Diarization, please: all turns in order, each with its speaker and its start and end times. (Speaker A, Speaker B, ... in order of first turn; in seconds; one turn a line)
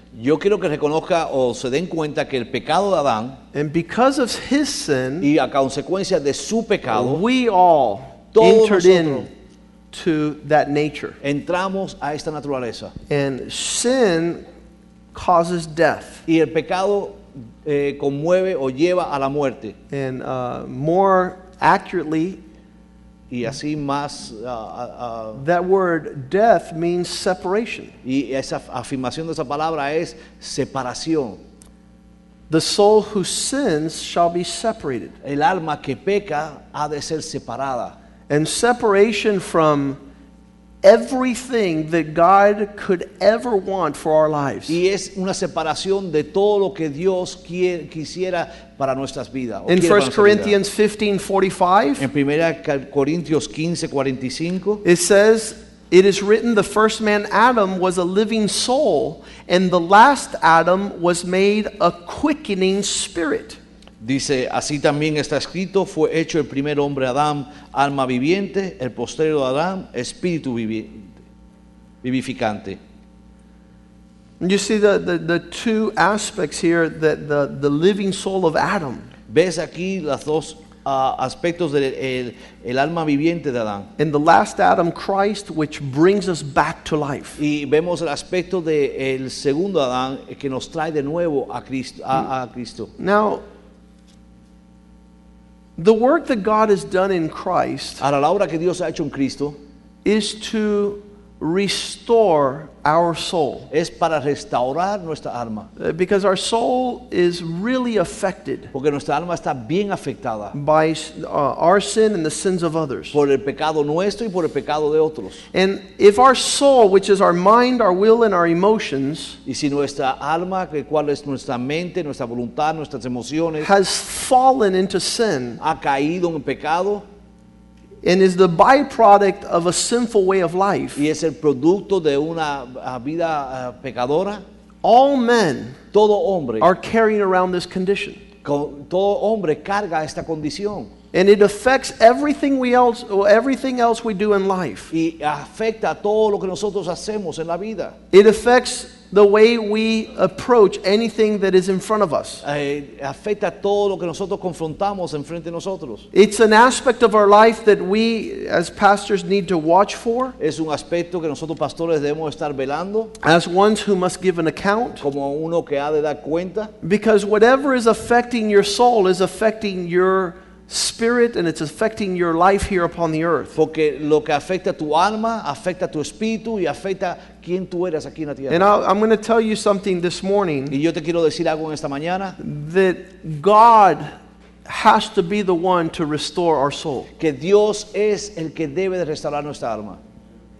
Speaker A: 0.1-3.4
Speaker B: 3.5-5.3
Speaker A: 5.2-7.2
Speaker B: 6.9-9.3
Speaker A: 8.3-9.3
Speaker B: 9.9-11.2
Speaker A: 11.2-12.9
Speaker B: 13.1-14.4
Speaker B: 15.1-16.2
Speaker A: 16.3-19.8
Speaker B: 19.9-22.4
Speaker A: 23.3-25.4
Speaker B: 25.3-27.9
Speaker A: 28.0-31.4
Speaker B: 32.5-35.1
Speaker A: 35.2-37.9
Speaker B: 38.3-40.0
Speaker B: 40.8-44.8
Speaker A: 44.7-50.5
Speaker B: 49.7-52.0
Speaker A: 52.0-54.8
Speaker B: 54.8-63.6
Speaker A: 64.0-71.1
Speaker A: 72.0-72.8
Speaker B: 74.4-79.1
Speaker A: 79.3-83.9
Speaker B: 84.0-87.4
Speaker A: 87.4-92.9
Speaker B: 93.0-93.4
Speaker B: 95.8-98.0
Speaker A: 98.0-99.6
Speaker B: 100.0-103.7
Speaker A: 103.7-105.7
Speaker B: 105.8-108.7
Speaker A: 108.7-110.5
Speaker B: 110.5-113.2
Speaker A: 113.1-115.4
Speaker B: 115.5-119.4
Speaker A: 119.5-123.7
Speaker B: 123.6-125.6
Speaker A: 125.6-127.0
Speaker B: 128.0-131.0
Speaker A: 130.9-134.4
Speaker B: 134.8-135.8
Speaker A: 135.9-136.7
Speaker B: 136.6-138.2
Speaker A: 138.4-140.9
Speaker B: 141.1-144.9
Speaker A: 144.9-147.9
Speaker B: 148.1-152.4
Speaker A: 152.4-156.1
Speaker B: 156.1-160.3
Speaker A: 160.4-163.1
Speaker B: 163.2-165.0
Speaker A: 165.0-166.7
Speaker B: 166.8-173.6
Speaker A: 173.5-178.7
Speaker B: 178.5-180.8
Speaker A: 180.7-182.4
Speaker B: 182.4-187.1
Speaker A: 187.2-190.0